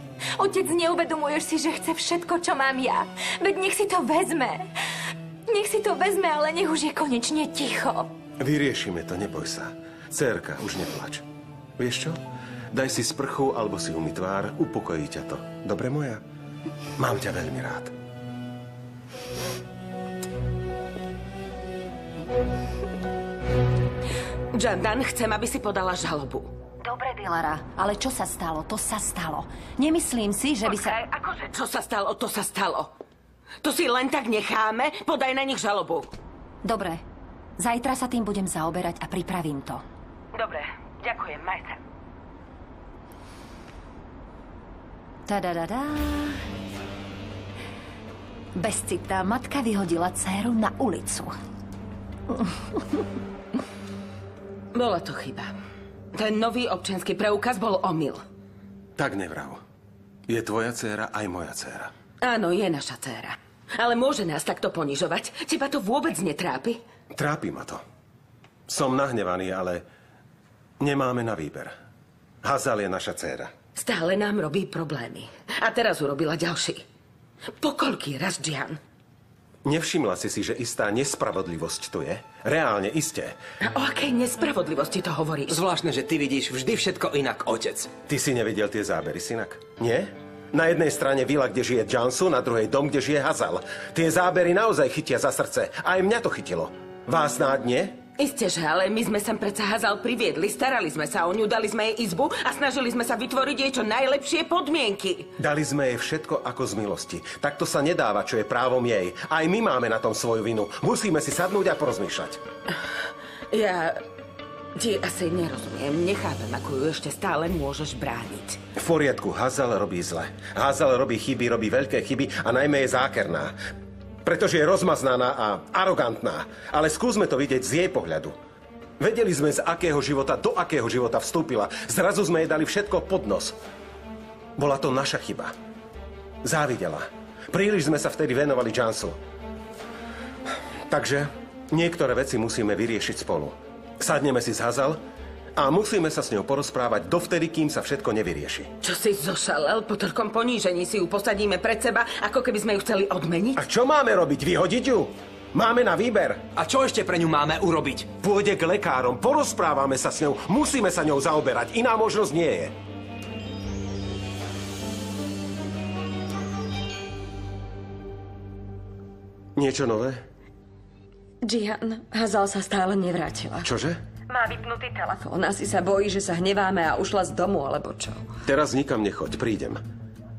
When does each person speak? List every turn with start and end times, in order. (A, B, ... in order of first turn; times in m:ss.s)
0:00.4-0:04.7 A
0:05.5-0:08.1 A
0:08.4-0:11.2 B
0:11.8-0:12.2 B
0:12.7-0:16.2 B
0:17.0-0:17.9 B
0:24.5-0:26.5 C
0:26.8-0:30.9 D
0:30.6-0:32.9 C
0:33.6-0:36.1 C
0:36.6-0:37.0 D
0:37.6-0:39.8 D
0:40.3-0:41.8 C
0:45.3-0:46.4 D
0:48.6-0:51.3 D
0:54.7-0:55.5 C
0:56.1-0:58.2 C
0:59.0-0:59.6 B
1:00.3-1:01.9 B
1:02.2-1:06.8 C
1:07.1-1:07.8 B
1:08.7-1:09.8 B
1:10.8-1:11.7 B
1:12.4-1:13.5 B
1:13.8-1:16.8 C
1:17.6-1:18.8 C
1:19.6-1:23.4 B
1:23.6-1:25.6 C
1:25.5-1:27.9 E
1:28.1-1:38.0 B
1:38.2-1:45.3 C
1:45.4-1:52.4 B
1:53.5-1:54.0 C
1:54.8-1:58.6 C
1:58.8-2:03.5 B
2:04.2-2:08.3 B
2:09.0-2:13.6 B
2:14.6-2:15.5 B
2:16.4-2:19.2 B
2:20.9-2:25.0 B
2:25.6-2:28.7 B
2:28.8-2:33.6 C
2:33.6-2:36.4 B
2:36.5-2:38.1 E
2:38.2-2:42.7 B
2:49.6-2:50.2 B
2:51.4-2:53.7 F
2:53.6-2:54.0 B
2:54.3-2:58.2 F
2:58.4-2:59.8 B